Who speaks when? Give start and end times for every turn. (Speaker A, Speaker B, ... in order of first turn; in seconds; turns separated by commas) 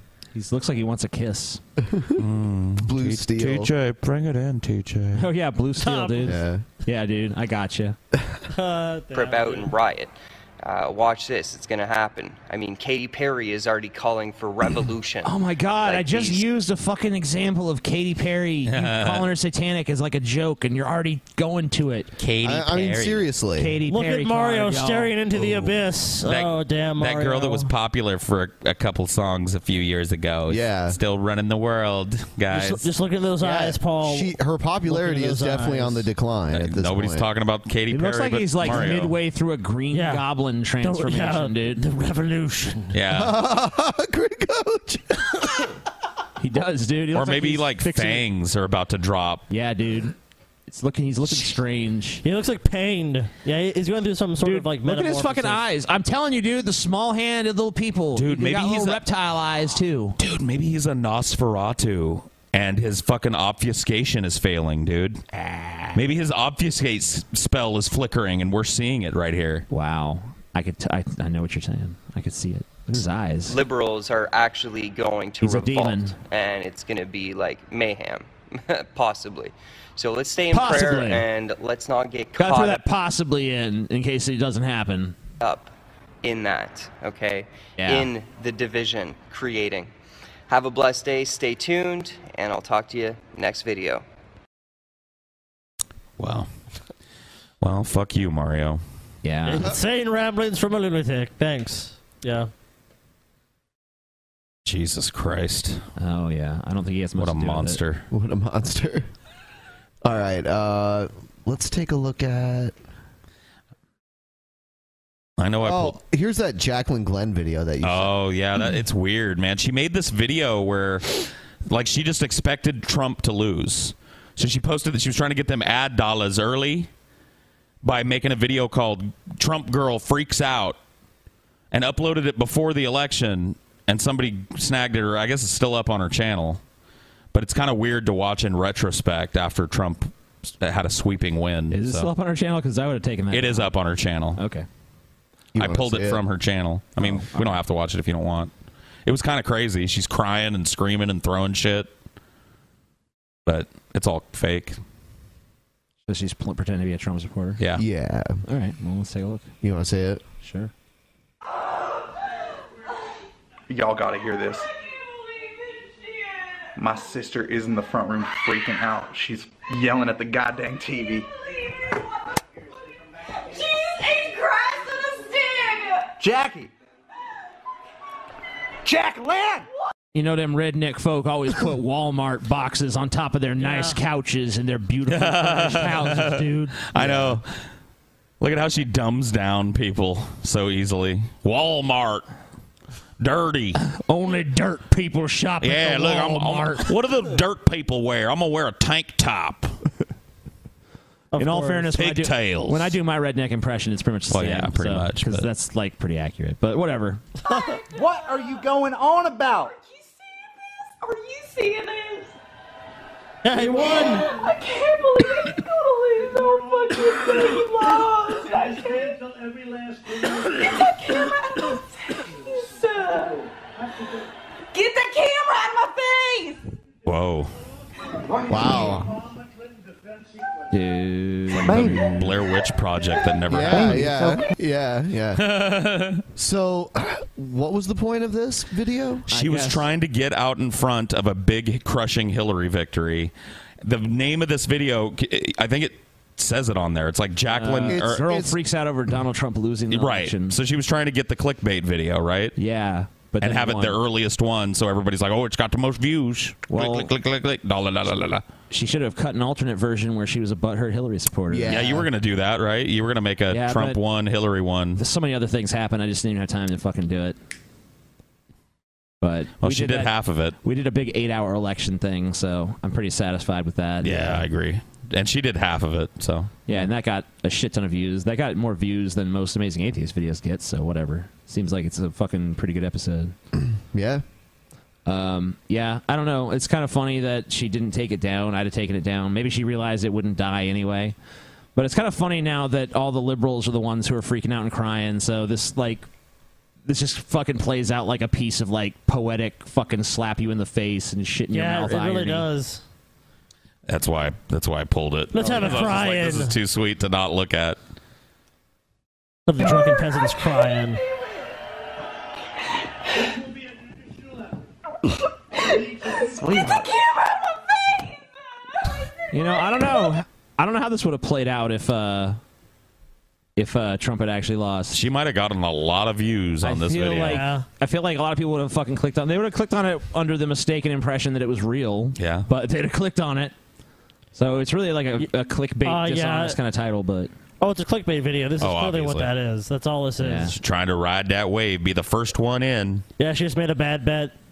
Speaker A: 0.3-1.6, Speaker B: 1.8-2.2, Speaker C: 2.2-5.3, Speaker B: 2.8-3.7, Speaker A: 5.1-8.0, Speaker D: 5.8-6.3, Speaker B: 6.2-6.6, Speaker D: 8.5-9.7, Speaker E: 9.1-10.1, Speaker E: 10.6-16.4, Speaker A: 15.2-22.1, Speaker C: 18.6-19.3, Speaker C: 22.2-23.2, Speaker B: 22.4-23.8, Speaker A: 23.6-25.1, Speaker D: 23.9-27.7, Speaker C: 26.2-32.8, Speaker B: 30.5-31.0, Speaker D: 32.5-34.3, Speaker B: 33.4-37.2, Speaker D: 34.9-36.1, Speaker C: 36.5-39.1, Speaker A: 37.9-41.8, Speaker D: 39.9-40.2, Speaker D: 40.8-42.9, Speaker C: 42.9-43.3, Speaker B: 43.1-45.5, Speaker A: 46.4-48.2, Speaker C: 47.1-49.5, Speaker A: 49.5-50.1, Speaker A: 50.7-52.2, Speaker D: 52.2-55.6, Speaker A: 54.4-60.2, Speaker C: 58.1-59.0, Speaker C: 60.2-65.2, Speaker A: 65.3-66.0, Speaker C: 65.9-69.7, Speaker A: 69.7-73.6, Speaker E: 73.5-82.8, Speaker A: 75.4-76.2, Speaker A: 80.5-81.2, Speaker A: 82.4-85.2, Speaker E: 85.4-85.7, Speaker E: 86.2-89.9, Speaker A: 87.8-88.1, Speaker E: 90.5-94.0, Speaker C: 96.2-96.5, Speaker C: 97.6-98.8, Speaker A: 99.2-99.7, Speaker D: 99.5-102.5, Speaker C: 104.7-105.8, Speaker A: 106.0-107.8, Speaker C: 107.2-108.0, Speaker B: 108.1-109.1, Speaker B: 110.0-112.7, Speaker C: 115.4-116.0, Speaker B: 115.6-118.1, Speaker C: 117.8-126.9, Speaker C: 127.8-130.8, Speaker C: 131.7-136.6, Speaker C: 137.3-142.1, Speaker A: 141.7-143.7, Speaker C: 143.3-144.4, Speaker A: 144.3-144.7, Speaker B: 145.5-146.2, Speaker C: 145.6-148.5, Speaker A: 147.0-147.6, Speaker C: 149.1-151.9, Speaker C: 153.4-154.8, Speaker A: 156.1-157.6, Speaker C: 157.6-157.8, Speaker B: 157.8-158.4, Speaker A: 158.5-159.5, Speaker B: 159.6-160.2, Speaker A: 160.4-160.7, Speaker F: 163.7-164.7, Speaker G: 164.7-166.7, Speaker F: 166.8-171.3, Speaker G: 173.3-176.1, Speaker F: 176.2-176.7, Speaker F: 178.8-179.7, Speaker A: 180.1-187.2, Speaker D: 183.6-184.0, Speaker C: 185.1-187.6, Speaker D: 185.6-186.7, Speaker C: 188.4-192.2, Speaker C: 193.2-193.8, Speaker A: 193.8-196.9, Speaker C: 195.6-199.7, Speaker D: 201.3-201.9, Speaker A: 201.3-207.2, Speaker C: 201.9-202.9, Speaker C: 204.3-205.5, Speaker G: 207.4-208.4, Speaker F: 207.9-209.7, Speaker G: 209.6-212.3, Speaker D: 213.4-214.2, Speaker G: 213.6-223.4, Speaker G: 224.7-226.6, Speaker C: 227.0-227.5, Speaker B: 228.5-229.2, Speaker A: 230.7-232.1, Speaker C: 231.6-234.3, Speaker B: 233.5-235.4, Speaker C: 235.3-236.2, Speaker B: 236.3-239.3, Speaker A: 239.3-239.8, Speaker C: 239.3-248.2, Speaker A: 247.5-250.6, Speaker B: 247.9-248.6, Speaker C: 249.9-252.6, Speaker A: 252.6-254.0, Speaker C: 253.4-258.4, Speaker A: 256.7-257.1, Speaker A: 258.7-261.8, Speaker B: 261.5-262.1, Speaker C: 261.7-265.0, Speaker A: 263.5-264.0, Speaker A: 265.0-267.4, Speaker A: 269.2-274.4, Speaker C: 269.6-270.6, Speaker C: 274.0-276.9, Speaker A: 276.7-283.3, Speaker B: 283.6-284.2, Speaker A: 285.1-291.1, Speaker A: 291.7-296.1, Speaker A: 296.8-302.4, Speaker D: 301.5-302.8, Speaker C: 303.9-307.8, Speaker D: 305.3-306.5, Speaker D: 309.5-311.0, Speaker G: 315.5-318.2, Speaker A: 319.3-322.4, Speaker A: 323.6-325.0, Speaker C: 324.9-327.4, Speaker A: 326.6-333.5, Speaker D: 327.1-327.6, Speaker C: 332.2-332.5, Speaker A: 334.3-337.3, Speaker D: 335.8-336.6, Speaker D: 337.6-340.5, Speaker C: 338.6-339.3, Speaker A: 340.2-340.6, Speaker C: 340.5-343.0, Speaker D: 343.2-344.3